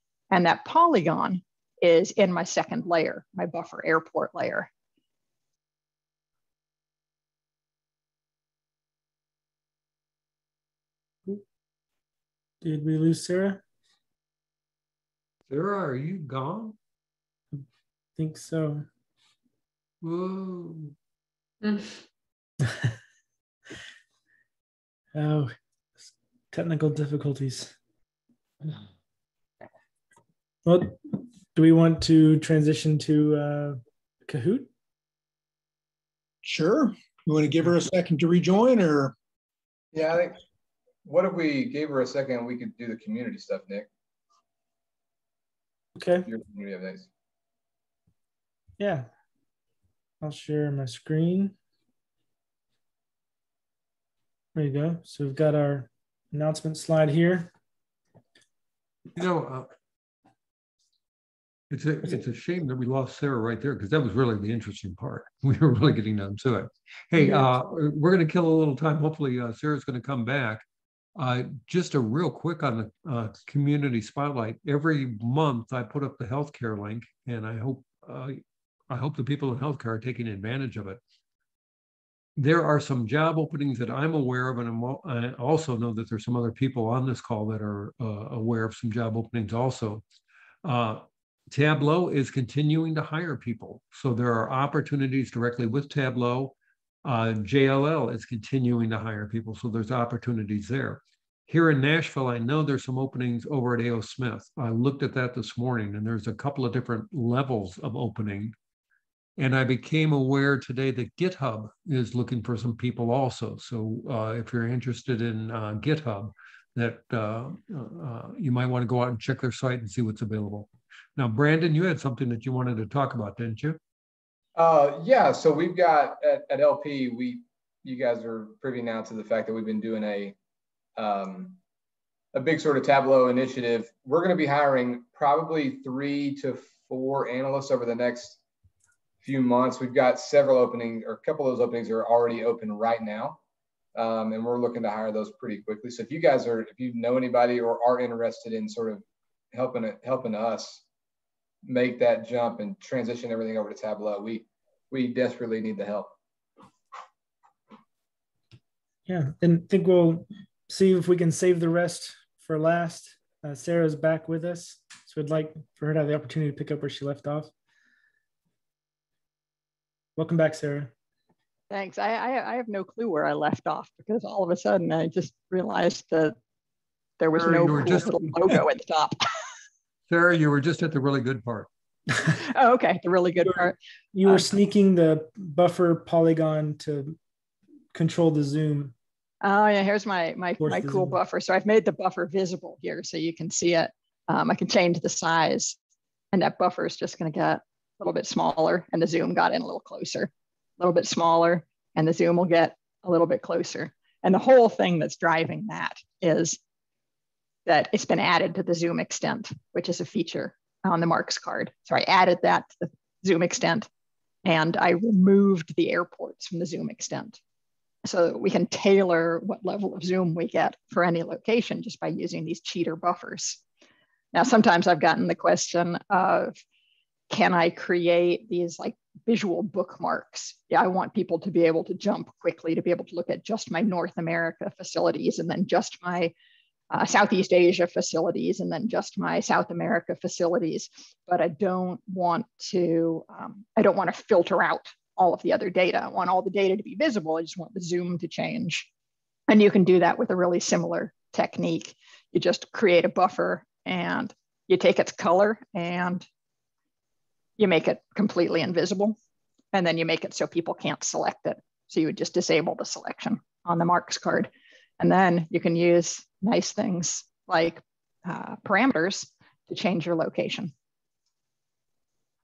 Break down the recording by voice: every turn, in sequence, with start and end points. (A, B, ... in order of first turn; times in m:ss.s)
0:00.3-0:04.7 A
0:12.6-0:13.6 B
0:15.5-0:16.8 C
0:18.2-0:18.9 B
0:20.0-0:21.0 C
0:25.1-0:25.6 B
0:26.5-0:27.8 B
0:30.7-0:34.7 B
0:36.4-0:39.2 D
0:39.9-0:40.4 E
0:41.0-0:43.9 E
0:46.0-0:46.3 B
0:46.3-0:47.1 E
0:48.8-0:49.1 B
0:50.2-0:51.6 B
0:54.6-0:57.5 B
0:59.2-0:59.7 C
1:01.7-1:10.6 C
1:11.2-1:21.0 C
1:22.4-1:30.0 C
1:30.6-1:48.6 C
1:49.4-2:03.8 C
2:04.6-2:10.4 E
2:11.0-2:11.6 E
2:12.3-2:18.4 E
2:19.2-2:23.4 E
2:24.0-2:30.8 E
2:31.6-2:36.2 E
2:39.1-2:47.5 B
2:50.2-2:50.9 B
2:51.7-2:56.4 A
2:57.2-2:59.2 A
2:57.4-2:58.4 C
3:00.1-3:01.7 C
3:02.3-3:04.4 A
3:03.5-3:07.2 B
3:07.9-3:08.9 B
3:09.4-3:15.8 A
3:10.6-3:11.2 B
3:16.3-3:26.6 A
3:27.7-3:33.9 A
3:34.4-3:37.4 A
3:38.0-3:43.6 A
3:44.3-3:46.6 A
3:47.3-3:56.3 A
3:56.9-4:08.9 A
4:09.5-4:16.3 A
4:17.6-4:19.2 A
4:19.7-4:30.7 A